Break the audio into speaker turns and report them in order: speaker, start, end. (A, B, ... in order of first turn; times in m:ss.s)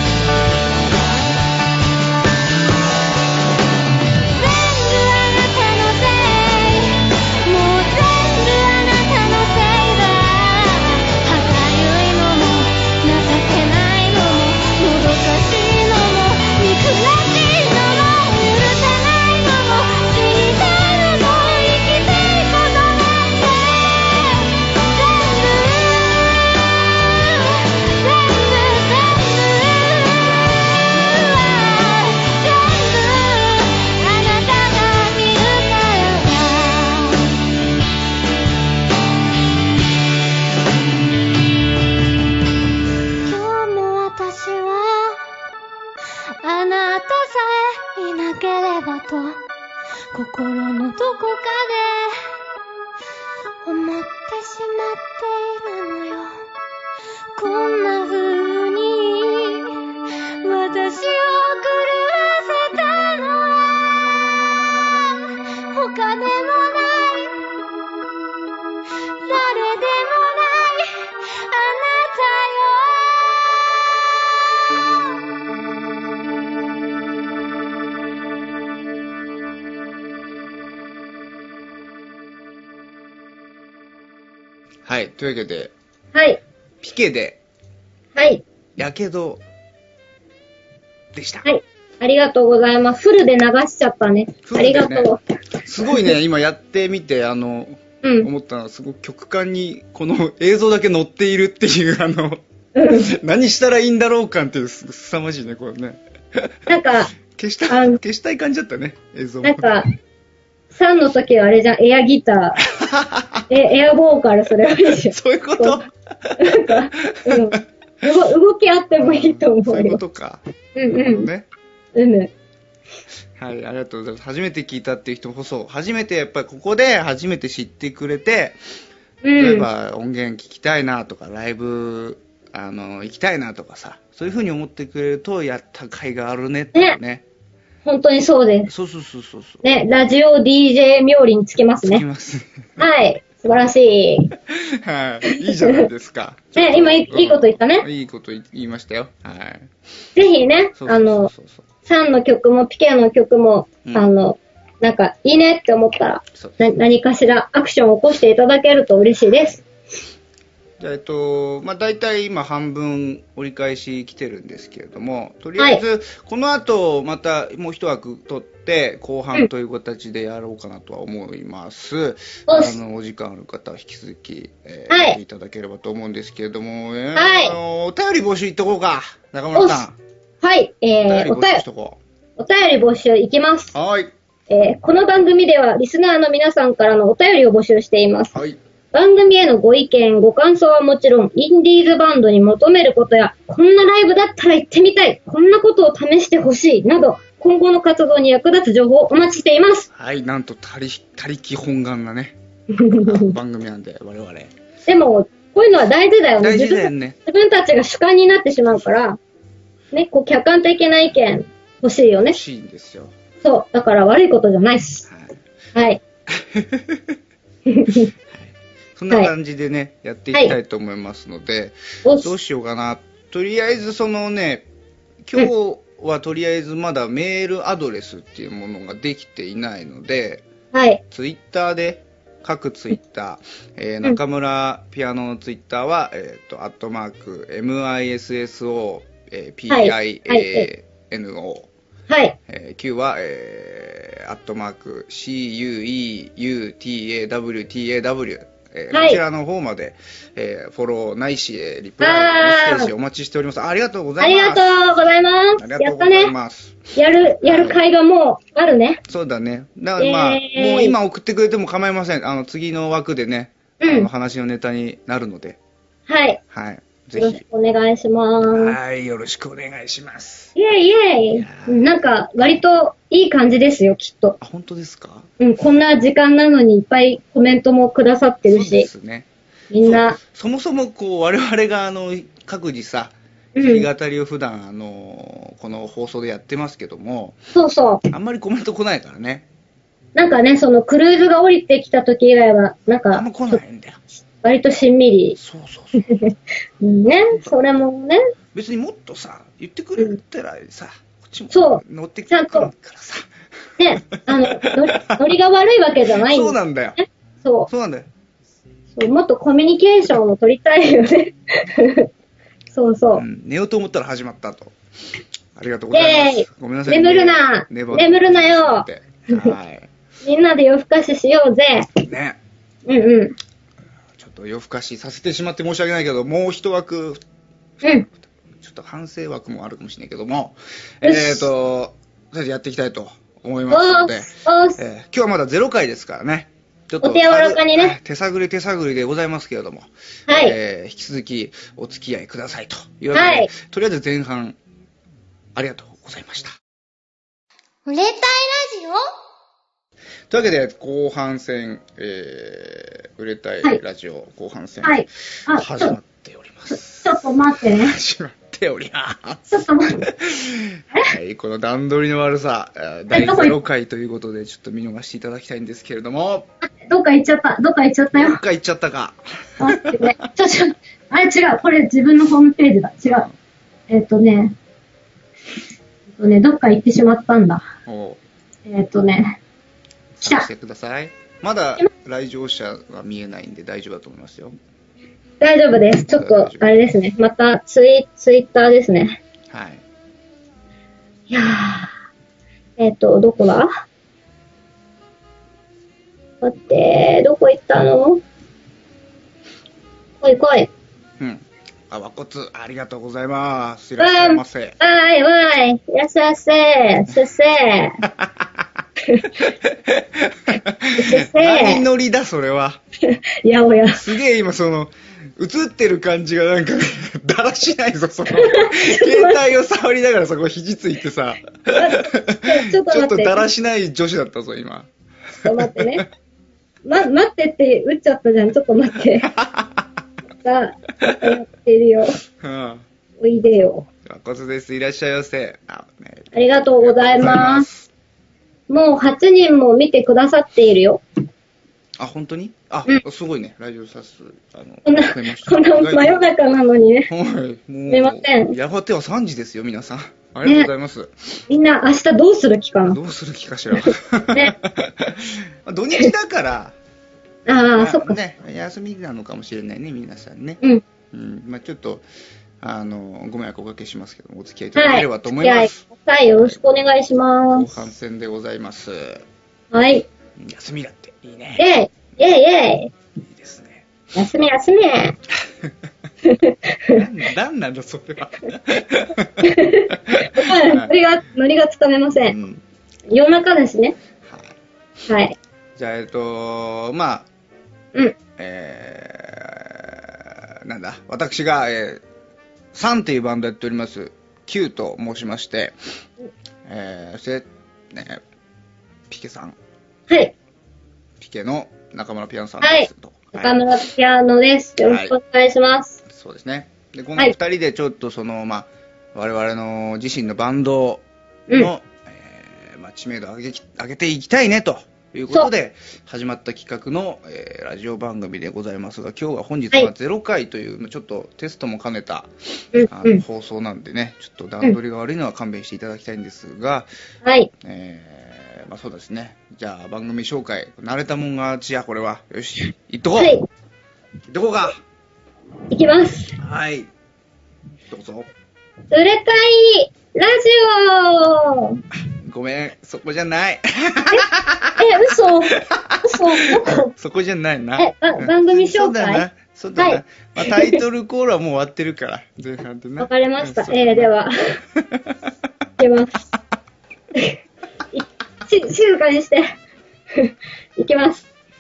0:04.3-0:37.3 A
0:43.2-0:45.3 A
0:46.4-0:49.4 A
0:50.1-0:52.3 A
0:53.6-0:56.4 A
0:57.4-0:59.8 A
1:00.4-1:04.3 A
1:04.8-1:05.2 A
1:05.7-1:07.6 A
1:09.2-1:14.0 A
1:24.9-1:25.7 B
1:26.1-1:26.4 C
1:26.8-1:27.4 B
1:28.2-1:28.4 C
1:28.8-1:29.4 B
1:31.1-1:31.5 B
1:31.4-1:35.2 C
1:34.4-1:46.5 B
1:35.9-1:36.1 C
1:38.0-1:38.3 C
1:42.8-1:43.1 C
1:46.7-1:47.1 C
1:47.2-1:49.7 B
1:47.7-1:48.0 C
1:49.4-1:49.9 C
1:50.7-1:52.6 C
1:52.8-1:53.5 B
1:53.5-1:55.8 C
1:55.0-1:57.6 B
1:56.4-2:00.0 C
1:59.0-2:01.5 B
2:00.8-2:01.3 C
2:02.0-2:02.3 C
2:03.4-2:08.6 B
2:09.2-2:09.7 C
2:09.4-2:17.2 B
2:17.8-2:18.7 C
2:18.7-2:19.6 B
2:19.6-2:22.0 C
2:21.8-2:22.8 B
2:22.8-2:24.3 C
2:24.5-2:29.7 B
2:25.3-2:25.9 C
2:26.6-2:27.9 C
2:30.2-2:31.3 C
2:30.8-2:31.7 B
2:31.9-2:39.6 C
2:40.8-3:00.0 B
2:52.5-2:52.8 C
2:54.9-2:55.2 C
2:57.2-2:57.6 C
2:59.6-2:59.8 C
3:00.4-3:01.6 C
3:01.1-3:02.0 B
3:02.4-3:03.7 C
3:03.7-3:04.1 B
3:04.5-3:08.4 C
3:08.3-3:08.6 B
3:08.9-3:19.9 C
3:19.9-3:22.4 B
3:22.7-3:23.4 C
3:22.9-3:24.5 B
3:24.9-3:29.2 C
3:26.4-3:27.2 B
3:29.9-3:32.4 C
3:32.3-3:33.1 B
3:33.4-3:35.1 C
3:35.1-3:35.4 B
3:35.8-3:36.0 C
3:36.3-3:37.2 B
3:37.7-3:38.1 C
3:38.3-3:44.7 B
3:42.0-3:42.3 C
3:45.2-3:50.5 B
3:50.7-3:51.0 C
3:51.1-4:01.7 B
3:59.7-4:00.7 C
4:02.1-4:02.4 C
4:02.5-4:14.7 B
4:08.9-4:09.2 C
4:12.0-4:12.9 C
4:14.2-4:16.3 C
4:15.6-4:17.8 B
4:17.0-4:19.0 C
4:19.1-4:25.6 B
4:20.0-4:21.0 C
4:23.8-4:24.1 C
4:26.1-4:26.4 C
4:26.5-4:27.4 B
4:27.2-4:28.8 C
4:28.4-4:30.5 B
4:30.6-4:34.4 C
4:31.3-4:31.8 B
4:34.4-4:35.3 B
4:35.4-4:38.9 C
4:38.5-4:39.3 B
4:39.7-4:40.2 C
4:39.8-4:47.4 B
4:43.6-4:43.9 C
4:47.5-4:48.0 C
4:48.1-4:49.5 B
4:50.2-4:53.6 C
4:53.1-4:54.0 B
4:54.4-4:55.4 C
4:55.4-4:56.1 B
4:56.0-4:58.2 C
4:58.5-5:03.3 B
5:01.5-5:02.7 C
5:03.8-5:07.7 C
5:04.1-5:05.3 B
5:06.2-5:07.0 B
5:07.7-5:08.1 B
5:09.0-5:12.1 C
5:12.7-5:13.2 C
5:13.1-5:14.7 B
5:15.6-5:19.9 B
5:15.9-5:19.5 C
5:20.2-5:21.9 C
5:22.0-5:22.4 B
5:22.9-5:23.4 C
5:24.2-5:27.2 B
5:27.8-5:44.6 B
5:31.0-5:31.5 C
5:33.7-5:34.8 C
5:37.0-5:38.0 C
5:40.3-5:40.6 C
5:43.1-5:43.5 C
5:45.6-5:46.6 B
5:47.9-5:49.0 A
5:50.3-6:06.5 B
5:54.8-5:56.0 C
5:57.0-5:58.0 C
5:59.5-6:00.0 C
6:03.1-6:03.6 C
6:06.6-6:08.4 C
6:08.1-6:10.3 B
6:09.6-6:13.3 C
6:13.1-6:13.4 B
6:13.9-6:14.6 C
6:16.1-6:17.6 C
6:17.9-6:18.2 B
6:18.7-6:19.4 C
6:20.2-6:24.6 B
6:20.2-6:20.5 C
6:25.4-6:29.2 C
6:26.1-6:26.7 B
6:29.5-6:29.8 B
6:31.3-6:31.9 C
6:32.8-6:33.7 C
6:36.4-6:38.2 C
6:40.2-6:40.7 C
6:41.2-6:44.8 B
6:44.0-6:48.0 C
6:48.0-6:48.6 B
6:49.0-6:49.3 C
6:49.4-6:52.8 B
6:51.0-6:51.8 C
6:53.0-6:54.0 C
6:53.9-7:04.9 B
6:58.4-6:59.4 C
7:01.7-7:03.5 C
7:05.4-7:06.0 C
7:05.5-7:06.1 B
7:06.8-7:09.3 C
7:09.2-7:09.9 B
7:10.4-7:12.2 C
7:11.0-7:11.3 B
7:12.4-7:12.9 B
7:13.2-7:13.9 C
7:14.0-7:17.9 B
7:16.3-7:17.7 C
7:18.7-7:21.0 C
7:22.0-7:26.3 B
7:24.9-7:27.1 C
7:27.1-7:31.1 B
7:27.9-7:28.6 C
7:30.4-7:30.7 C
7:31.5-7:33.0 C
7:32.9-7:36.8 B
7:33.8-7:34.5 C
7:37.5-7:38.2 C
7:37.8-7:40.6 B
7:41.1-7:42.0 B
7:42.6-7:46.6 B
7:44.8-7:47.7 C
7:47.5-7:49.2 B
7:49.7-7:50.1 C
7:50.4-7:51.7 B
7:51.6-7:52.9 C
7:53.2-7:53.9 B
7:54.1-7:55.2 C
7:55.5-7:55.7 B
7:56.2-7:57.1 C
7:56.9-8:00.9 B
7:59.4-8:02.4 C
8:02.3-8:02.6 B
8:03.1-8:04.0 C
8:04.3-8:04.6 B
8:05.1-8:05.4 C
8:05.8-8:07.3 B
8:08.4-8:12.0 B
8:12.7-8:15.8 B
8:16.7-8:18.2 B
8:19.1-8:19.6 B
8:20.1-8:20.3 C
8:21.2-8:23.6 B
8:22.6-8:26.0 C
8:24.8-8:25.2 B
8:26.1-8:42.3 B
8:42.7-8:43.2 C
8:42.9-8:46.9 B
8:47.2-8:47.5 C
8:47.6-8:53.4 B
8:53.2-8:53.5 C
8:54.3-8:54.8 B
8:55.7-8:56.4 C
8:56.4-8:56.9 B
8:57.9-8:58.3 B
8:58.9-9:01.8 C
9:02.2-9:14.1 B
9:04.8-9:06.9 C
9:07.8-9:09.2 C
9:09.8-9:10.8 C
9:13.0-9:14.3 C
9:14.8-9:15.2 B
9:15.8-9:16.2 C
9:17.9-9:19.5 C
9:20.1-9:21.3 C